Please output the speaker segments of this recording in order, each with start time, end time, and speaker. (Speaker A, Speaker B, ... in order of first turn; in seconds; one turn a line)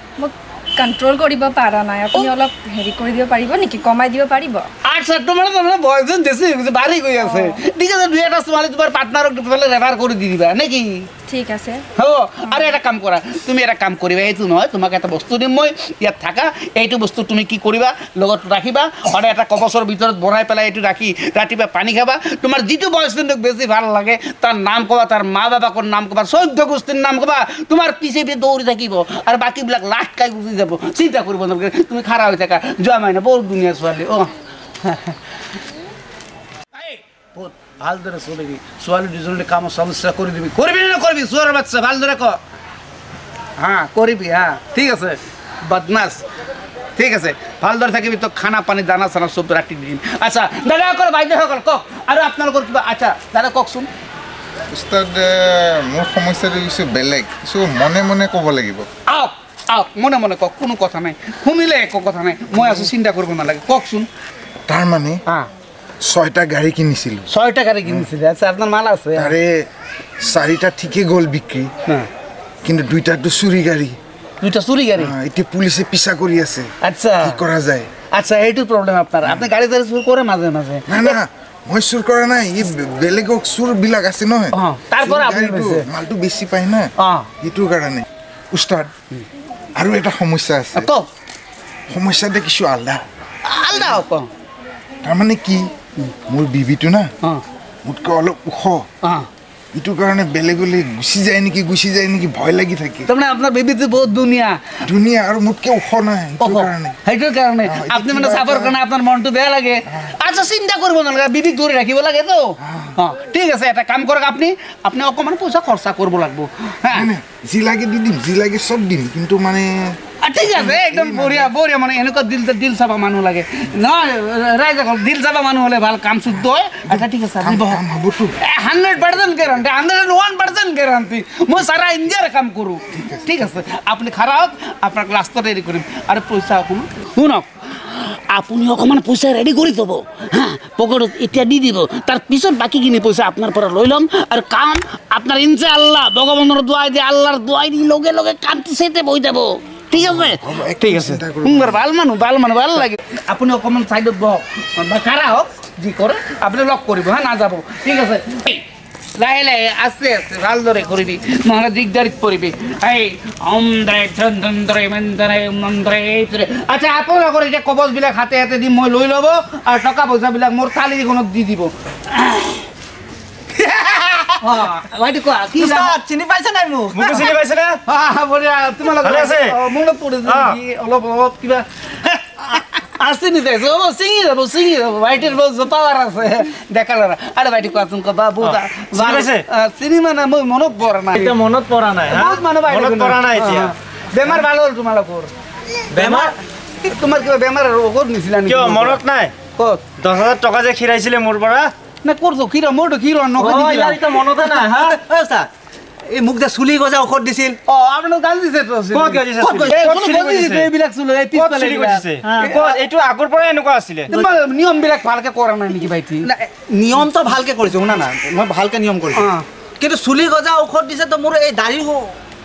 Speaker A: 0.2-4.7
Speaker B: 4.8-11.1
Speaker A: 7.2-7.6
Speaker A: 11.3-11.8
Speaker B: 11.9-34.3
Speaker B: 34.8-35.2
Speaker B: 36.7-42.4
Speaker B: 43.6-46.2
Speaker B: 47.0-53.9
Speaker C: 54.7-58.9
Speaker B: 59.1-64.1
Speaker C: 64.7-65.2
Speaker C: 66.0-67.3
Speaker B: 67.3-69.3
Speaker C: 69.1-69.7
Speaker C: 70.2-71.7
Speaker C: 72.6-74.0
Speaker B: 74.4-75.1
Speaker C: 75.0-76.7
Speaker B: 76.8-77.4
Speaker C: 77.2-77.9
Speaker B: 78.1-81.2
Speaker C: 80.9-88.9
Speaker B: 84.5-85.9
Speaker B: 87.0-87.3
Speaker C: 89.8-90.9
Speaker B: 90.7-91.1
Speaker C: 91.9-93.0
Speaker B: 93.4-94.3
Speaker C: 93.7-94.0
Speaker C: 95.0-95.7
Speaker C: 96.2-97.1
Speaker C: 97.8-98.8
Speaker B: 99.0-99.3
Speaker C: 99.7-103.1
Speaker B: 103.1-104.7
Speaker C: 104.8-107.0
Speaker B: 106.4-117.1
Speaker C: 107.6-108.8
Speaker C: 112.6-113.0
Speaker C: 116.9-121.5
Speaker B: 120.2-127.8
Speaker C: 126.9-128.3
Speaker B: 128.4-158.6
Speaker C: 133.0-133.3
Speaker C: 149.9-151.8
Speaker B: 159.2-172.7
Speaker B: 173.6-176.0
Speaker D: 175.6-177.2
Speaker E: 176.9-177.8
Speaker B: 177.1-177.3
Speaker B: 177.8-191.4
Speaker E: 178.9-179.6
Speaker E: 180.2-180.6
Speaker E: 188.4-189.4
Speaker E: 191.1-193.7
Speaker B: 192.1-195.3
Speaker E: 195.9-196.3
Speaker B: 196.0-199.0
Speaker E: 198.4-199.3
Speaker B: 199.6-199.8
Speaker E: 200.0-201.7
Speaker B: 202.0-204.0
Speaker E: 203.4-205.0
Speaker D: 204.4-205.5
Speaker D: 206.1-207.6
Speaker B: 207.7-212.8
Speaker E: 208.9-210.7
Speaker D: 209.4-209.8
Speaker E: 211.3-214.1
Speaker B: 214.1-216.3
Speaker D: 216.2-219.3
Speaker B: 219.1-219.4
Speaker D: 219.8-222.2